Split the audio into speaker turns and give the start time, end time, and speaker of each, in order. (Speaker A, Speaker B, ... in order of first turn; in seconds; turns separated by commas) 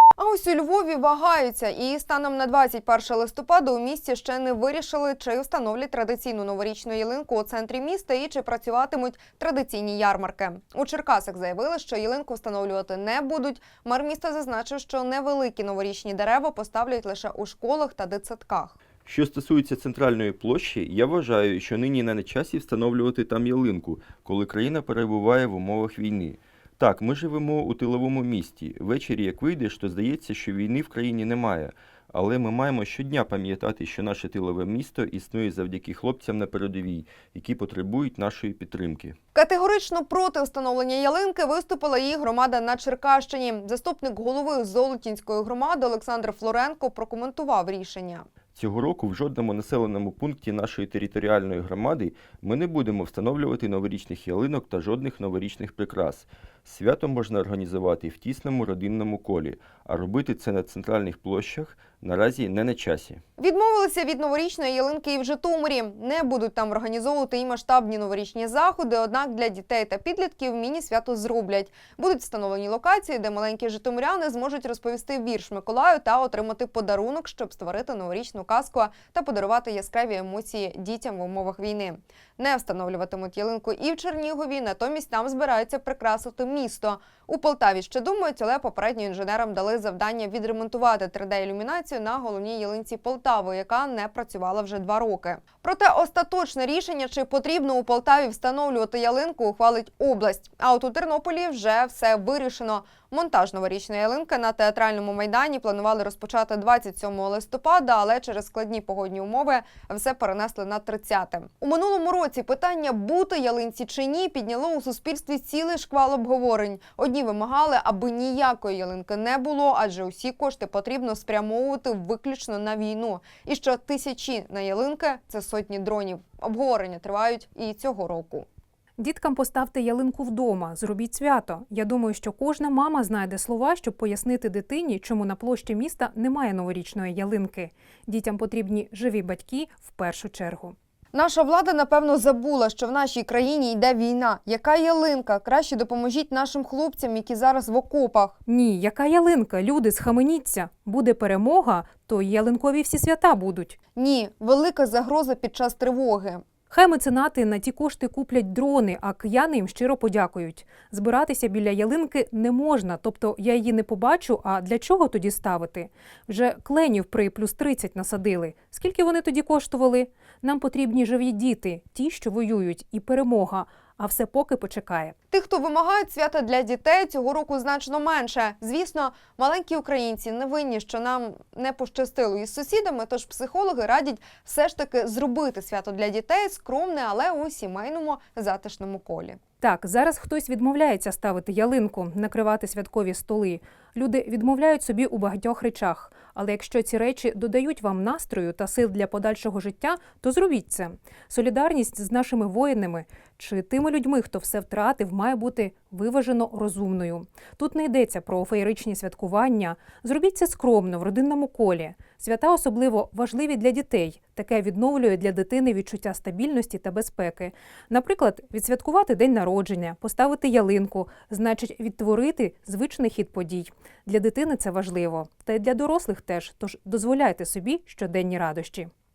Speaker A: 0.2-18.8, Speaker B: 19.0-39.2, Speaker A: 39.3-48.2, Speaker B: 48.5-63.2, Speaker A: 63.4-128.5, Speaker C: 129.0-140.7, Speaker A: 141.1-148.4, Speaker C: 148.4-153.8, Speaker A: 153.9-156.4, Speaker C: 156.7-175.1, Speaker A: 175.3-189.4, Speaker C: 189.6-228.9